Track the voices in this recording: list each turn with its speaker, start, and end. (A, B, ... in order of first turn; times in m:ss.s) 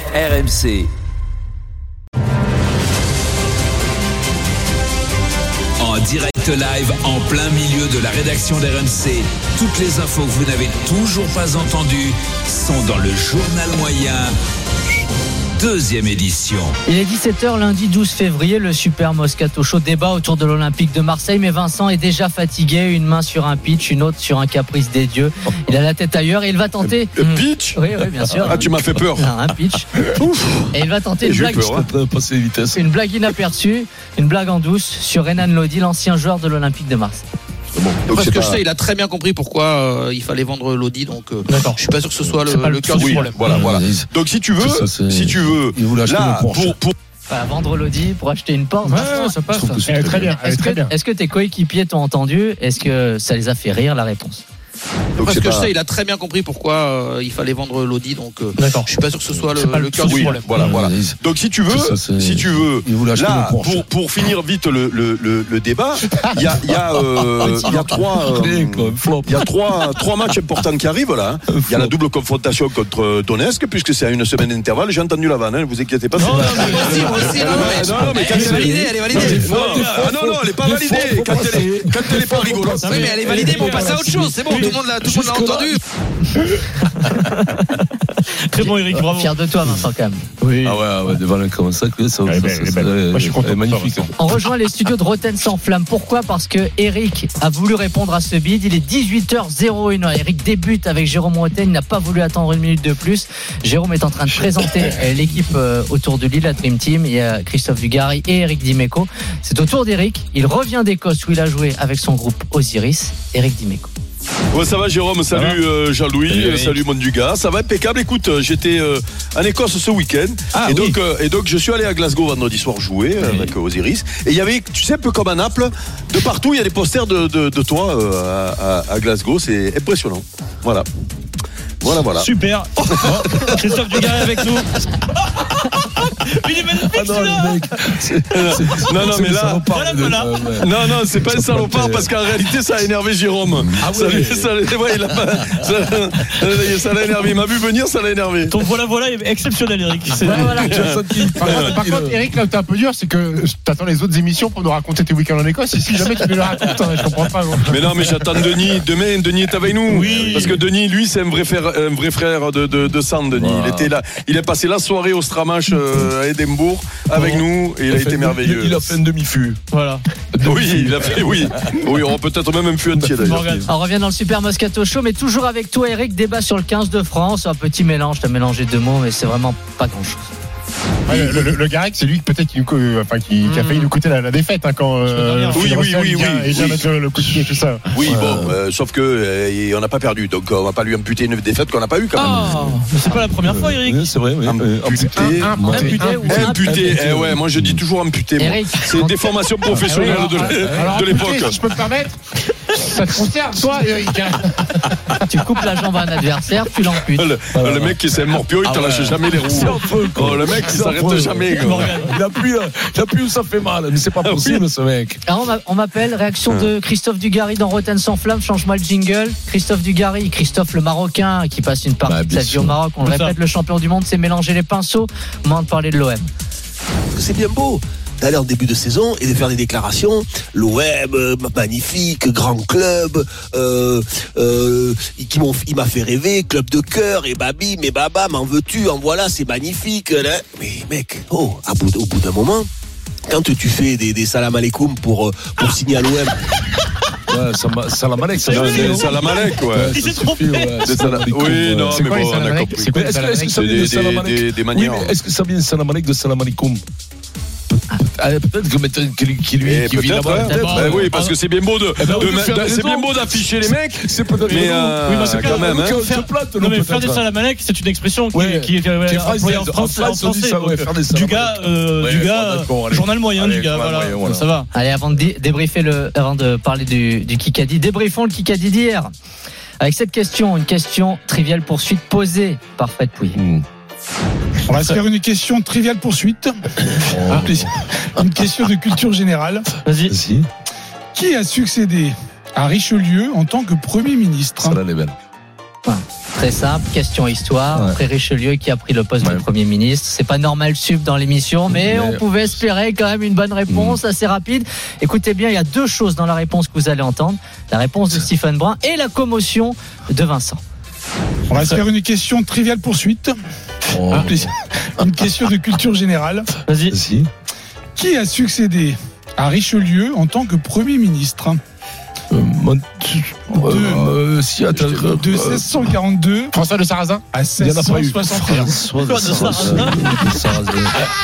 0:00.1-0:00.9 A
0:05.8-0:14.3 A
0:15.6-0:16.7 A
0:16.8-0:29.9 B
0:27.2-0:27.8 C
0:28.4-0:29.2 C
0:30.7-0:31.8 B
0:31.2-0:31.9 C
0:31.6-0:32.8 D
0:32.7-0:37.2 B
0:38.0-0:38.6 C
0:38.1-0:43.4 E
0:41.5-0:41.8 F
0:42.4-0:43.6 F
0:42.9-0:46.9 C
0:43.4-0:46.8 D
0:47.3-0:49.4 B
0:48.8-0:49.8 F
0:49.5-0:50.4 D
0:49.8-0:50.9 G
0:50.4-0:54.4 B
0:55.2-0:55.7 C
0:55.2-1:00.6 E
0:58.6-0:59.0 F
0:59.5-1:00.5 F
1:00.0-1:24.2 C
1:00.5-1:01.2 D
1:01.7-1:03.8 D
1:07.4-1:09.5 D
1:07.4-1:07.8 F
1:11.5-1:11.9 D
1:16.1-1:18.7 F
1:16.2-1:23.7 D
1:16.8-1:19.8 E
1:22.8-1:25.4 F
1:22.9-1:25.8 E
1:24.4-1:25.8 D
1:26.8-1:29.3 F
1:28.6-1:30.2 B
1:30.4-1:30.8 F
1:30.6-1:34.1 D
1:32.2-1:34.1 G
1:34.2-1:53.9 B
1:54.5-2:10.9 C
1:56.3-1:56.8 D
2:00.5-2:00.9 F
2:11.8-2:12.3 C
2:12.0-2:14.8 F
2:13.0-2:13.2 C
2:15.3-2:17.9 F
2:16.8-2:22.3 D
2:18.3-2:19.7 C
2:19.7-2:20.3 F
2:20.6-2:28.5 C
2:23.7-2:25.7 D
2:28.5-2:30.6 F
2:30.2-2:32.3 D
2:30.3-2:31.8 C
2:30.3-2:30.7 G
2:31.4-2:38.4 G
2:37.7-2:49.0 C
2:39.8-2:40.6 D
2:39.9-2:40.6 F
2:43.3-2:43.9 D
2:47.1-2:49.6 D
2:49.7-2:50.0 F
2:50.3-2:51.8 D
2:50.4-2:53.5 C
2:53.0-2:53.7 D
2:53.2-2:53.7 F
2:53.7-3:00.2 B
3:01.1-3:07.9 G
3:01.1-3:01.5 C
3:05.0-3:05.8 F
3:05.5-3:12.6 C
3:08.0-3:08.6 D
3:12.2-3:12.7 D
3:12.2-3:14.1 F
3:13.4-3:17.8 D
3:14.4-3:15.7 C
3:15.0-3:16.6 G
3:15.7-3:16.6 F
3:16.1-3:16.9 B
3:16.2-3:21.6 C
3:18.4-3:20.5 B
3:19.7-3:22.2 G
3:20.6-3:20.9 D
3:22.7-3:25.2 G
3:25.2-3:27.3 B
3:27.1-3:31.9 C
3:27.5-3:28.0 D
3:28.6-3:35.2 D
3:31.5-3:32.1 F
3:34.2-3:34.6 C
3:35.2-3:46.3 B
3:42.0-3:42.8 D
3:43.0-3:43.3 F
3:47.2-4:02.6 H
4:03.4-4:06.3 H
4:07.3-4:09.1 D
4:08.4-4:11.1 F
4:08.5-4:10.0 C
4:09.7-4:12.1 D
4:10.8-4:15.1 C
4:11.8-4:13.7 G
4:12.9-4:16.8 D
4:17.7-4:21.2 D
4:19.6-4:26.0 C
4:20.4-4:21.3 F
4:22.0-4:27.2 D
4:24.4-4:34.7 F
4:28.3-4:34.5 D
4:34.7-4:39.1 B
4:39.8-4:43.4 B
4:43.3-4:43.6 D
4:44.7-4:46.6 I
4:47.0-4:47.7 D
4:47.3-4:49.7 I
4:49.8-4:50.2 F
4:50.1-4:50.5 D
4:51.1-4:54.8 I
4:54.6-4:55.1 D
4:55.8-5:10.6 B
4:57.7-4:58.0 D
4:59.2-4:59.4 D
5:01.7-5:02.3 D
5:03.7-5:04.0 D
5:11.5-5:13.3 I
5:13.9-5:14.5 D
5:14.2-5:16.5 I
5:16.7-5:17.0 F
5:16.9-5:17.3 D
5:18.0-5:21.6 I
5:22.3-5:25.8 D
5:23.5-5:24.2 I
5:24.8-5:26.5 I
5:26.5-5:27.2 G
5:27.3-5:28.8 I
5:27.6-5:31.0 D
5:29.0-5:30.2 F